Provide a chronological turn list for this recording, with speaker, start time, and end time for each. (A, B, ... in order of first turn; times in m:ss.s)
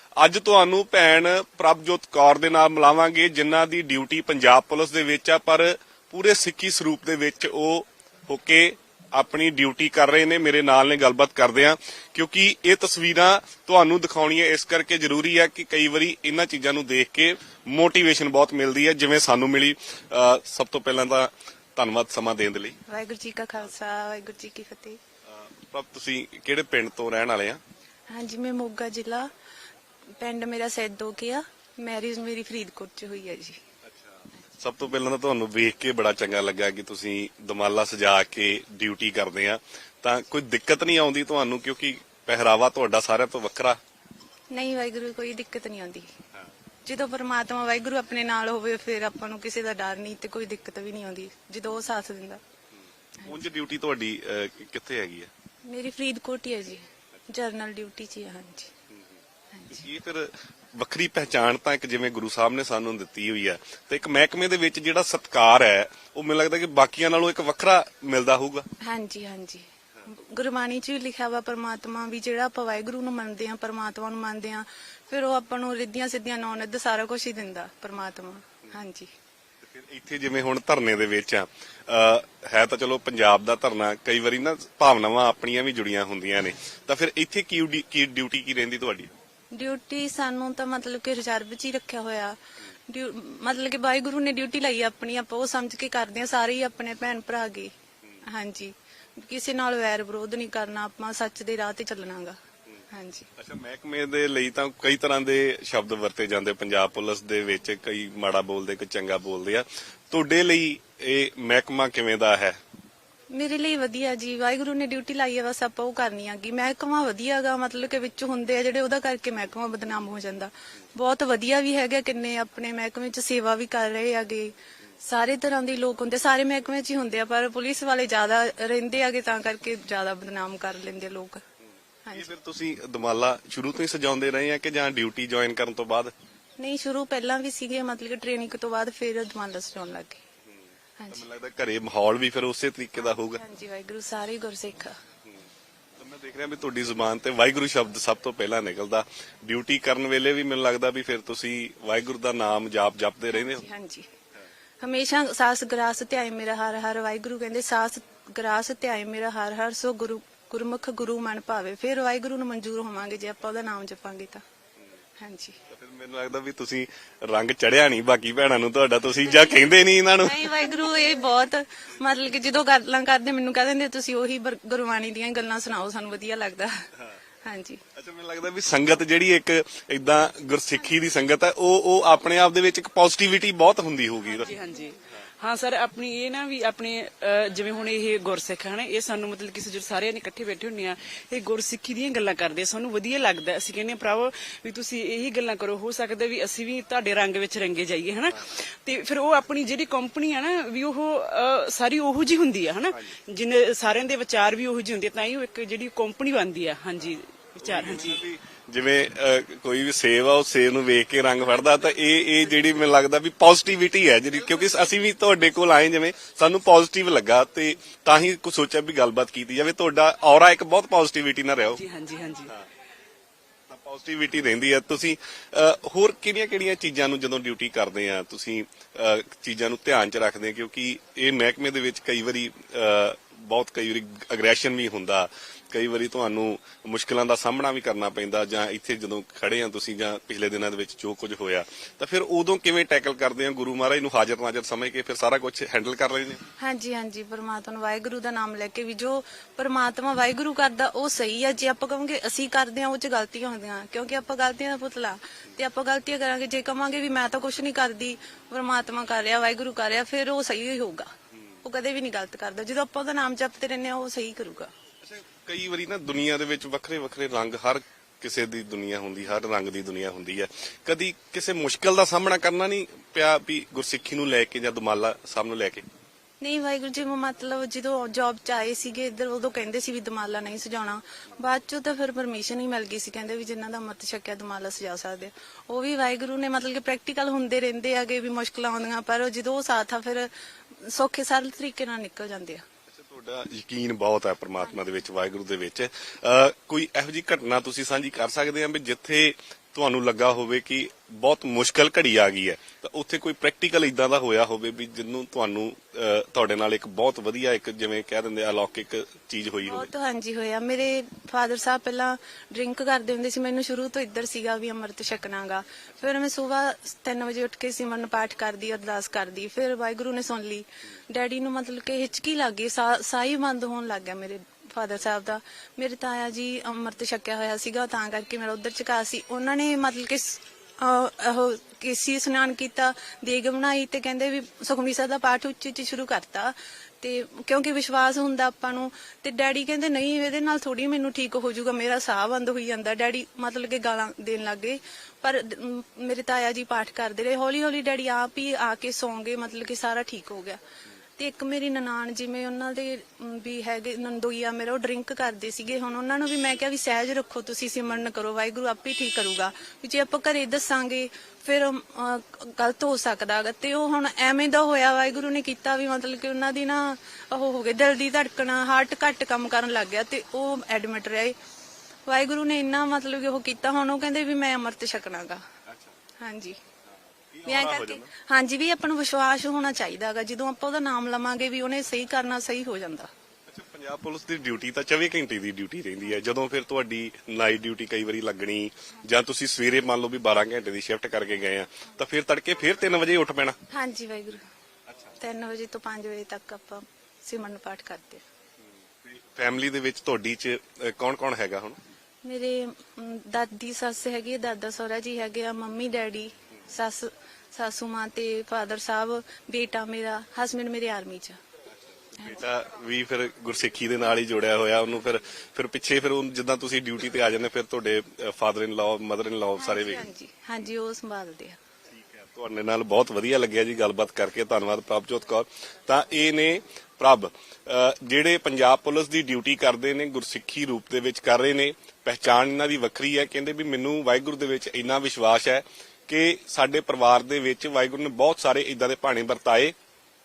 0:00.2-0:22.8 A
0:22.8-0:25.0 B
0:25.3-0:27.6 A
0:28.1-0:29.3 B
0:30.2-0:33.6 B
0:33.9-0:43.8 A
0:44.5-0:46.1 B
0:46.8-0:52.4 B
0:53.2-0:53.4 B
0:53.2-0:55.3 A
0:55.6-0:58.7 B
0:59.5-0:59.8 B
0:59.7-1:08.7 A
1:08.8-1:19.1 B
1:19.6-1:29.1 A
1:29.5-1:37.7 B
1:38.2-1:42.4 B
1:42.9-1:43.3 B
1:43.4-1:52.6 A
1:53.3-2:11.4 B
2:12.1-2:16.1 A
2:16.6-2:20.2 B
2:21.0-2:21.2 B
2:21.1-2:23.4 A
2:23.0-2:25.0 B
2:26.0-2:33.6 A
2:33.3-2:34.1 B
2:34.8-2:44.4 B
2:45.2-2:45.6 B
2:45.7-2:50.5 A
2:49.3-2:49.6 B
2:50.2-2:56.9 B
2:57.4-2:57.8 B
2:57.9-3:04.5 A
3:04.4-3:28.2 C
3:27.6-3:41.8 A
3:41.7-3:42.5 C
3:43.7-4:06.4 A
4:06.6-4:24.7 B
4:25.0-4:35.8 A
4:36.4-4:52.6 B
4:52.9-5:09.9 A
5:09.6-5:50.6 B
5:51.2-6:11.4 B
6:12.0-6:15.4 B
6:15.7-6:15.9 A
6:16.2-6:16.6 B
6:17.3-6:18.1 A
6:17.4-6:23.1 B
6:23.5-6:33.6 A
6:33.7-6:34.4 B
6:34.9-6:35.1 A
6:35.2-6:38.2 B
6:39.0-6:41.8 A
6:42.2-6:51.4 B
6:52.1-7:00.1 A
6:59.6-7:01.6 B
7:01.9-7:19.7 A